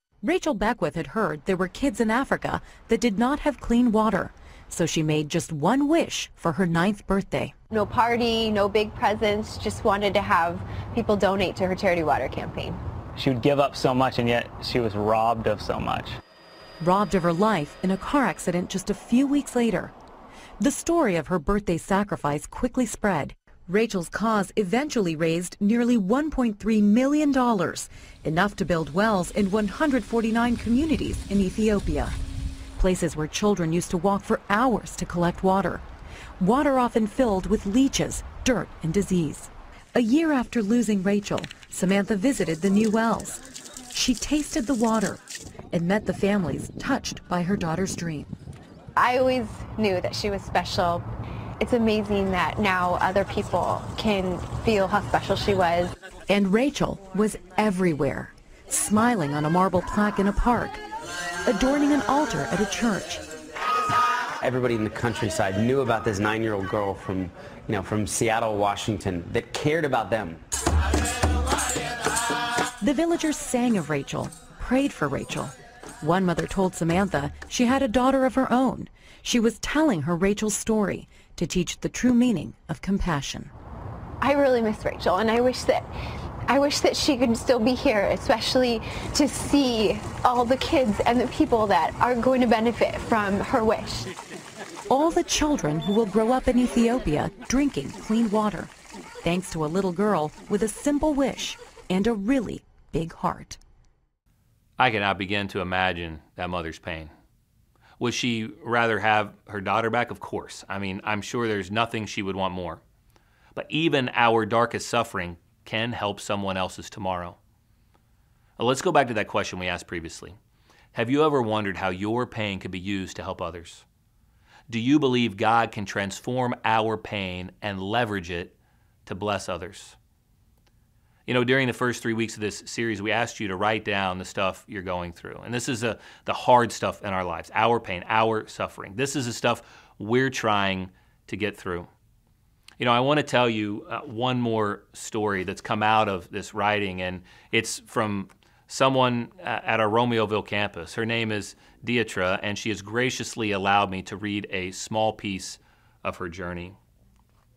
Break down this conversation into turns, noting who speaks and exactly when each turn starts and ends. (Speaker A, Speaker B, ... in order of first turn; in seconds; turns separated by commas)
Speaker A: 0.2-7.5, Speaker B: 7.7-12.8, Speaker C: 13.2-16.2, Speaker A: 16.8-19.9, Speaker A: 20.6-32.1, Speaker A: 32.8-35.8, Speaker A: 36.4-43.4, Speaker A: 43.9-45.2, Speaker A: 45.7-48.3, Speaker B: 49.0-51.0, Speaker B: 51.6-55.9, Speaker A: 56.3-60.8, Speaker A: 61.5-63.2, Speaker D: 64.4-70.4, Speaker A: 72.8-83.5, Speaker B: 84.2-85.9, Speaker B: 86.5-94.1, Speaker A: 94.9-98.7, Speaker A: 99.2-103.6, Speaker E: 104.8-107.1, Speaker E: 108.0-112.8, Speaker E: 113.5-117.4, Speaker E: 118.6-120.4, Speaker E: 120.9-123.8, Speaker E: 124.7-128.5, Speaker E: 129.1-130.0, Speaker E: 131.3-141.9, Speaker E: 142.8-156.8